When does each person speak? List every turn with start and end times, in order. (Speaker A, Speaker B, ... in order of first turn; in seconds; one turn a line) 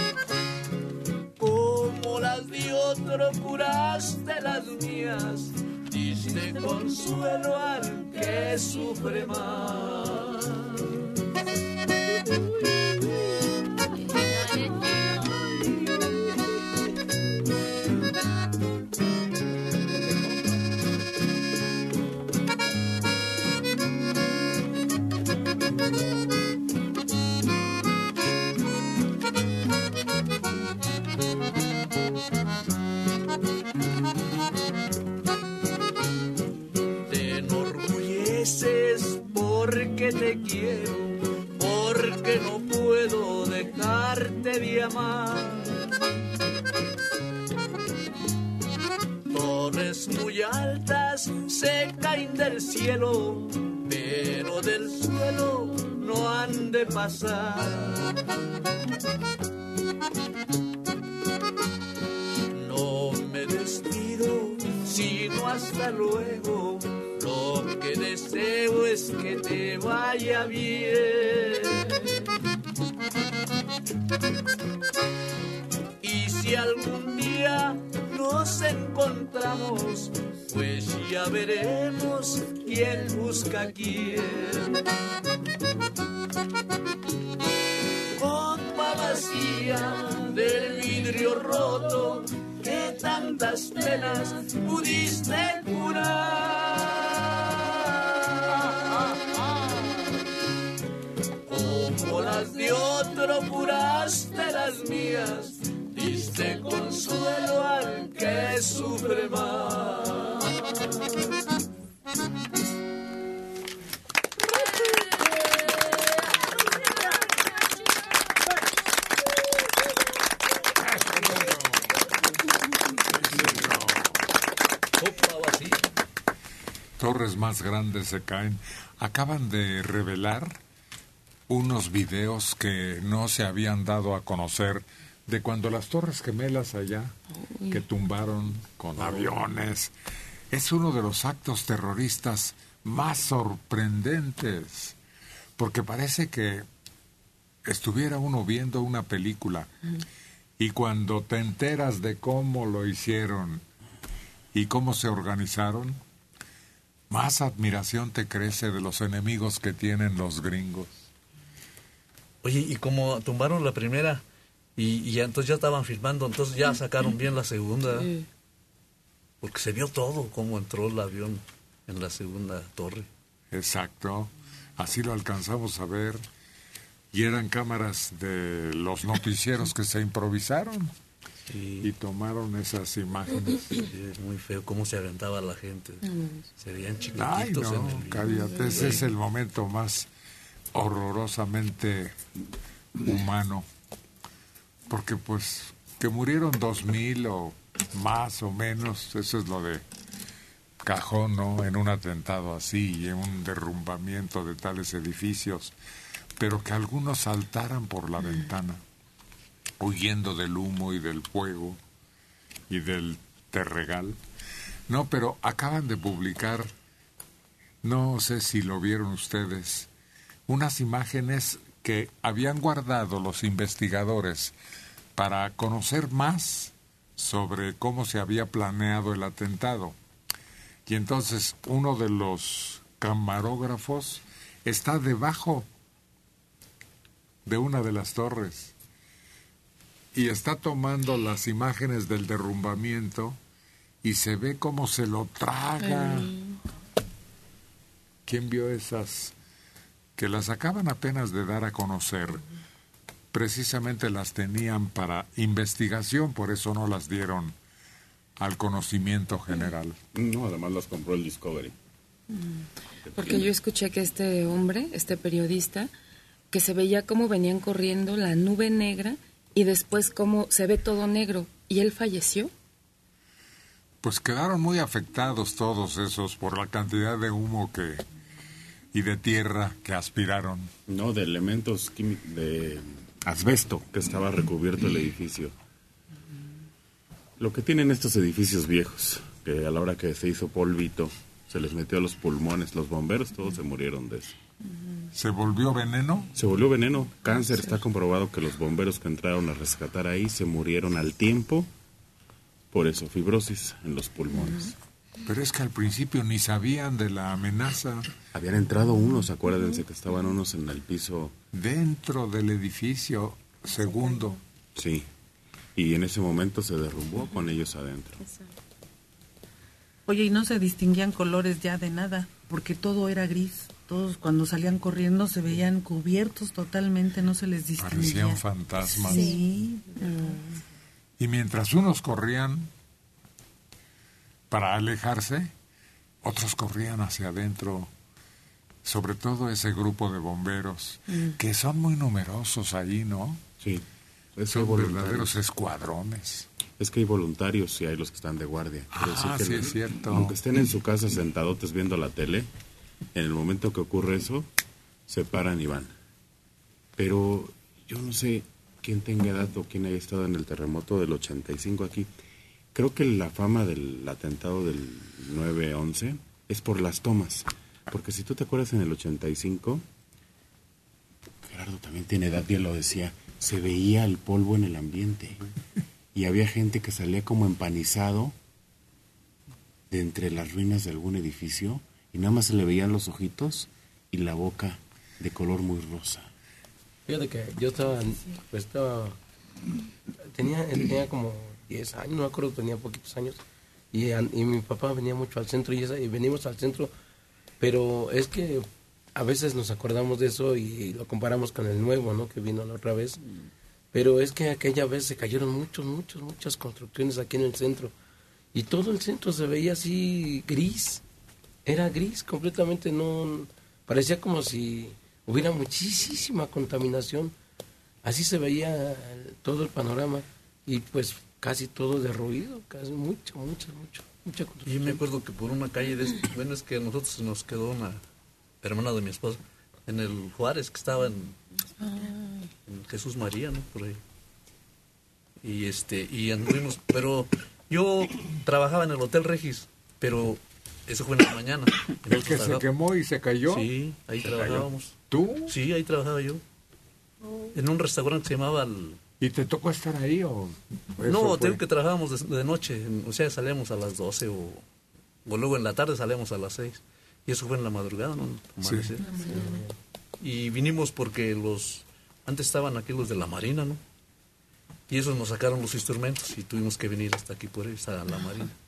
Speaker A: 1.4-10.6
Speaker A: 37.1-45.8
Speaker A: 49.3-58.1
Speaker A: 62.5-71.9
Speaker A: 76.0-84.8
Speaker A: 88.2-97.7
Speaker A: 98.5-100.1
Speaker A: 101.5-110.5
Speaker B: 120.8-121.8
Speaker B: 123.2-124.2
Speaker A: 125.0-125.8
Speaker B: 127.0-130.6
Speaker B: 131.5-137.2
Speaker C: 137.5-137.8
Speaker B: 137.7-139.9
Speaker B: 140.5-145.0
Speaker B: 145.6-146.7
Speaker B: 147.7-149.7
Speaker B: 150.6-153.6
Speaker B: 154.5-156.0
Speaker B: 157.1-161.1
Speaker A: 162.4-164.2
Speaker A: 164.8-168.1
Speaker C: 167.9-168.2
Speaker A: 169.4-173.1
Speaker B: 173.5-176.2
Speaker B: 177.1-180.9
Speaker A: 181.5-181.9
Speaker B: 181.8-183.7
Speaker A: 183.8-189.1
Speaker C: 186.0-186.4
Speaker B: 187.1-190.1
Speaker B: 190.7-192.2
Speaker B: 193.0-193.7
Speaker B: 194.9-199.8
Speaker B: 200.8-205.7
Speaker B: 206.4-208.8
Speaker B: 209.8-211.8
Speaker B: 212.7-214.2
Speaker B: 214.9-216.7
Speaker B: 217.8-219.9
Speaker B: 220.5-224.5
Speaker B: 225.2-230.0
Speaker B: 230.9-235.7
Speaker B: 237.5-238.7
Speaker B: 240.1-243.4
Speaker B: 244.0-246.3
Speaker C: 245.8-246.6
Speaker B: 248.3-249.3
Speaker B: 250.2-252.4
Speaker B: 253.3-257.6
Speaker B: 258.4-260.0
Speaker D: 260.1-261.7
Speaker C: 262.4-262.6
Speaker D: 263.1-263.4
Speaker C: 263.2-265.9
Speaker C: 266.5-272.5
Speaker B: 274.0-278.1
Speaker B: 278.9-280.7
Speaker D: 280.9-285.5
Speaker D: 287.4-294.4
Speaker B: 295.1-296.3
Speaker D: 296.4-301.7
Speaker D: 302.7-304.7
Speaker B: 305.3-308.1
Speaker D: 308.3-311.3
Speaker B: 311.5-314.4
Speaker D: 314.8-315.1
Speaker D: 315.8-318.2
Speaker E: 320.1-330.1
Speaker B: 327.8-329.4
Speaker C: 330.1-330.4
Speaker B: 331.2-332.7
Speaker B: 334.5-335.5
Speaker B: 336.2-337.9
Speaker B: 338.9-343.4
Speaker D: 344.4-345.3
Speaker B: 344.5-346.5
Speaker D: 346.8-352.5
Speaker B: 348.9-350.4
Speaker D: 353.1-354.5
Speaker D: 355.1-355.9
Speaker D: 357.0-362.1
Speaker D: 362.7-369.8
Speaker D: 371.5-375.5
Speaker D: 376.1-378.3
Speaker D: 379.9-386.3
Speaker F: 387.1-389.2
Speaker F: 390.3-393.4
Speaker F: 393.9-396.9
Speaker F: 397.6-403.2
Speaker F: 403.9-407.9
Speaker F: 408.5-411.0
Speaker F: 411.7-417.3
Speaker F: 418.0-425.0
Speaker A: 424.6-428.0
Speaker A: 428.6-431.4
Speaker C: 431.8-432.3
Speaker A: 432.7-434.0
Speaker A: 435.4-442.6
Speaker B: 442.1-443.7
Speaker A: 443.5-444.9
Speaker B: 444.2-445.5
Speaker A: 445.5-446.4
Speaker A: 447.5-449.0
Speaker B: 449.2-451.6
Speaker A: 451.1-454.6
Speaker A: 455.2-459.5
Speaker B: 458.6-458.9
Speaker A: 460.2-463.8
Speaker A: 464.9-468.5